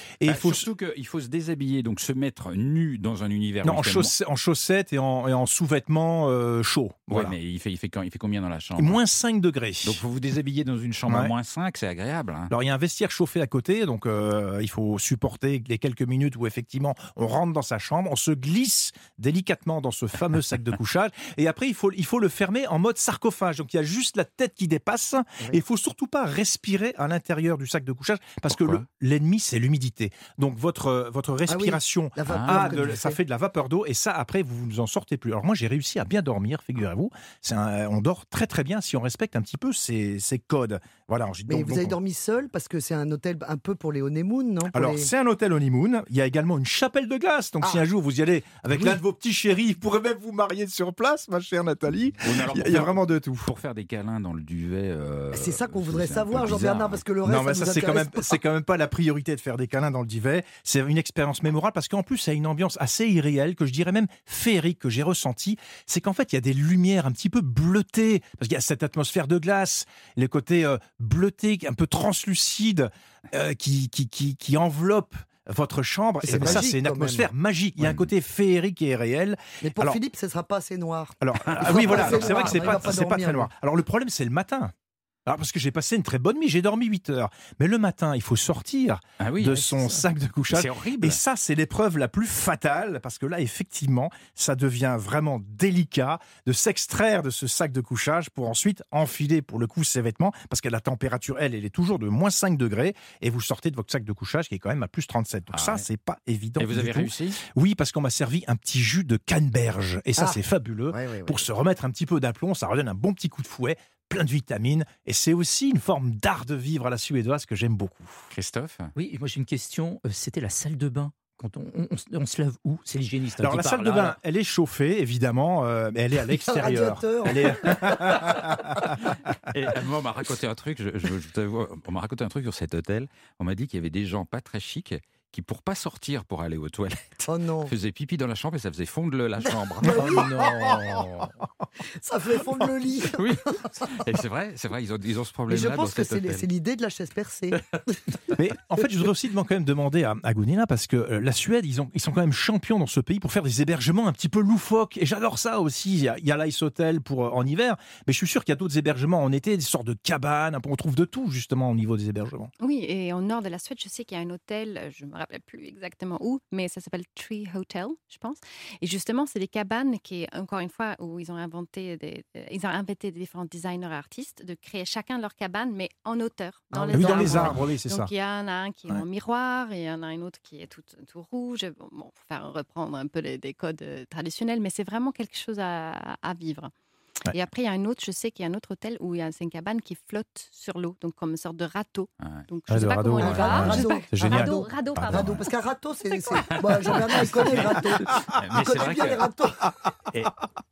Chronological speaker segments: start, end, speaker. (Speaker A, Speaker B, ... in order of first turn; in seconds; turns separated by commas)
Speaker A: 0.2-0.7, Speaker B: 0.3-4.1, Speaker A: 3.6-7.4, Speaker B: 7.1-9.0, Speaker A: 8.8-10.0, Speaker B: 9.8-12.5, Speaker A: 11.1-11.3, Speaker A: 12.5-42.0, Speaker B: 28.5-28.8, Speaker C: 31.5-33.2, Speaker B: 32.3-32.9, Speaker C: 41.5-45.1, Speaker A: 44.7-53.5, Speaker C: 47.6-47.9, Speaker B: 52.2-57.0, Speaker C: 55.3-58.4, Speaker A: 57.2-80.0, Speaker C: 76.2-77.3, Speaker B: 76.3-76.7, Speaker B: 77.8-78.1, Speaker C: 79.6-83.5, Speaker A: 81.2-84.7, Speaker B: 81.5-82.9, Speaker A: 85.3-118.3, Speaker B: 89.2-90.0, Speaker B: 90.5-91.2, Speaker B: 105.5-105.8, Speaker B: 106.6-107.4, Speaker C: 110.2-111.5, Speaker B: 118.3-118.9, Speaker D: 119.0-124.2, Speaker A: 123.4-129.1, Speaker C: 126.3-127.9, Speaker B: 129.0-141.3, Speaker C: 137.3-137.7, Speaker C: 139.4-140.9, Speaker C: 142.0-143.9, Speaker B: 142.4-146.5, Speaker C: 145.5-147.6, Speaker A: 148.3-162.5, Speaker E: 162.6-186.7, Speaker C: 176.7-177.6, Speaker A: 176.9-178.1, Speaker E: 187.3-195.3, Speaker A: 192.7-195.5, Speaker C: 193.2-199.7, Speaker B: 196.8-199.3, Speaker B: 200.1-200.4